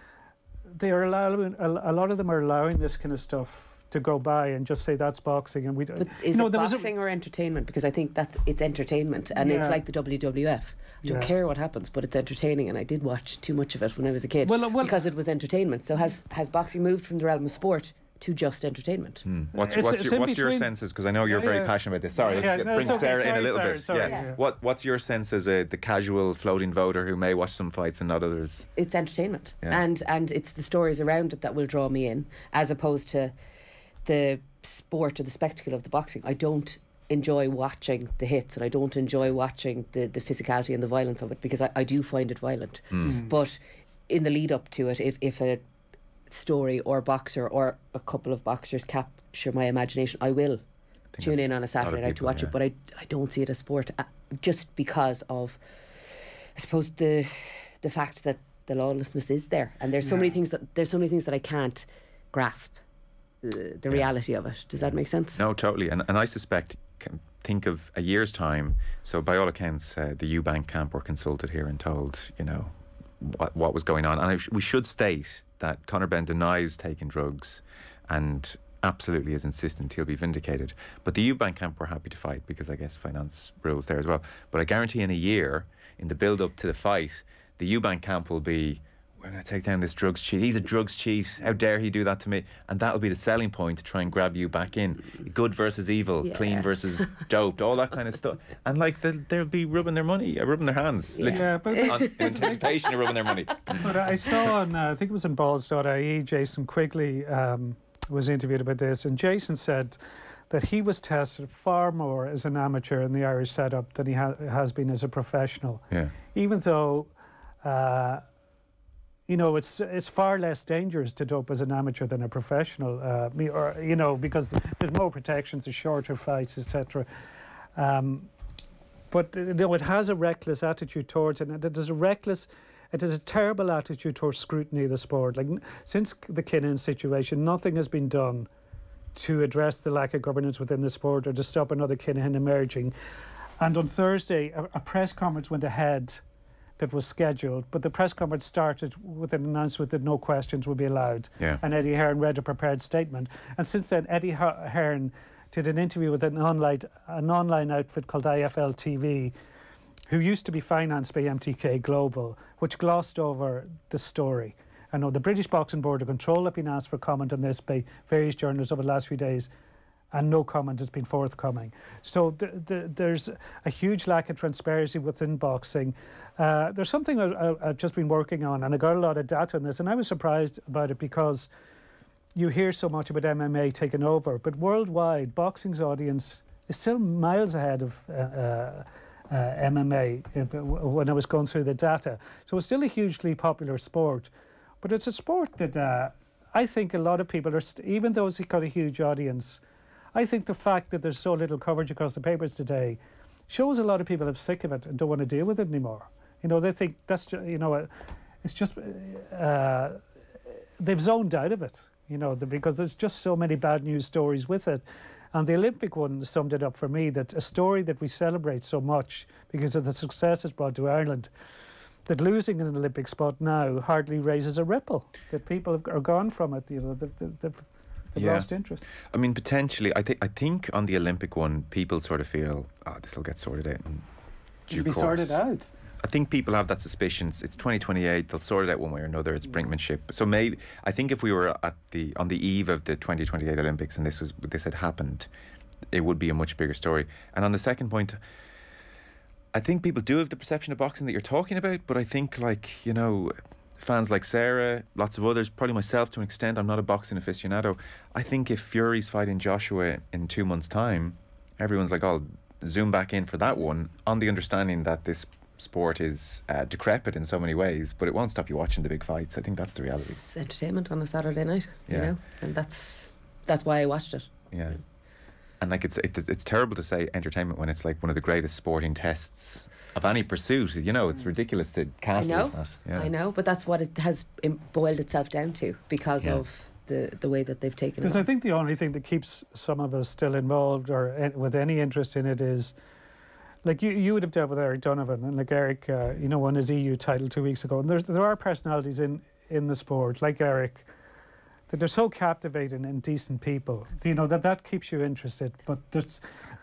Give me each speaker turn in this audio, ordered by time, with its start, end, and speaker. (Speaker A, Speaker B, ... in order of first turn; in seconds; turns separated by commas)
Speaker A: 0.7-6.9, Speaker B: 6.0-19.2, Speaker A: 9.4-9.8, Speaker A: 11.0-11.3, Speaker A: 14.4-15.0, Speaker C: 19.2-28.7, Speaker A: 19.5-20.7, Speaker A: 21.2-24.4, Speaker B: 22.7-23.1, Speaker B: 24.0-24.3, Speaker B: 28.8-33.4, Speaker B: 34.0-45.6, Speaker C: 42.9-43.2, Speaker B: 46.3-50.6, Speaker C: 51.1-52.5, Speaker B: 51.2-62.8, Speaker A: 60.0-60.3, Speaker B: 63.4-65.4, Speaker C: 64.8-104.1, Speaker B: 96.2-96.7, Speaker B: 101.2-102.9, Speaker A: 101.3-102.7, Speaker A: 103.8-110.0, Speaker A: 110.5-117.1, Speaker A: 117.6-118.2, Speaker A: 119.3-127.1, Speaker A: 127.8-128.3, Speaker A: 129.1-138.5, Speaker A: 139.2-142.9, Speaker A: 143.6-146.2, Speaker A: 146.8-159.3, Speaker A: 160.1-169.5, Speaker A: 170.1-181.5, Speaker A: 182.3-194.3, Speaker A: 194.8-199.6, Speaker A: 200.2-207.9, Speaker A: 208.4-210.0, Speaker A: 210.8-221.3, Speaker A: 222.1-228.9, Speaker C: 228.2-228.5, Speaker C: 229.1-234.1, Speaker C: 234.7-235.4, Speaker A: 234.7-235.7, Speaker C: 236.0-245.3, Speaker C: 245.9-248.2, Speaker C: 249.5-270.2, Speaker B: 269.9-274.3, Speaker C: 271.9-272.1, Speaker C: 274.5-274.8, Speaker C: 275.6-283.1, Speaker B: 282.1-288.3, Speaker A: 288.0-292.8, Speaker A: 293.6-300.9, Speaker A: 301.7-306.2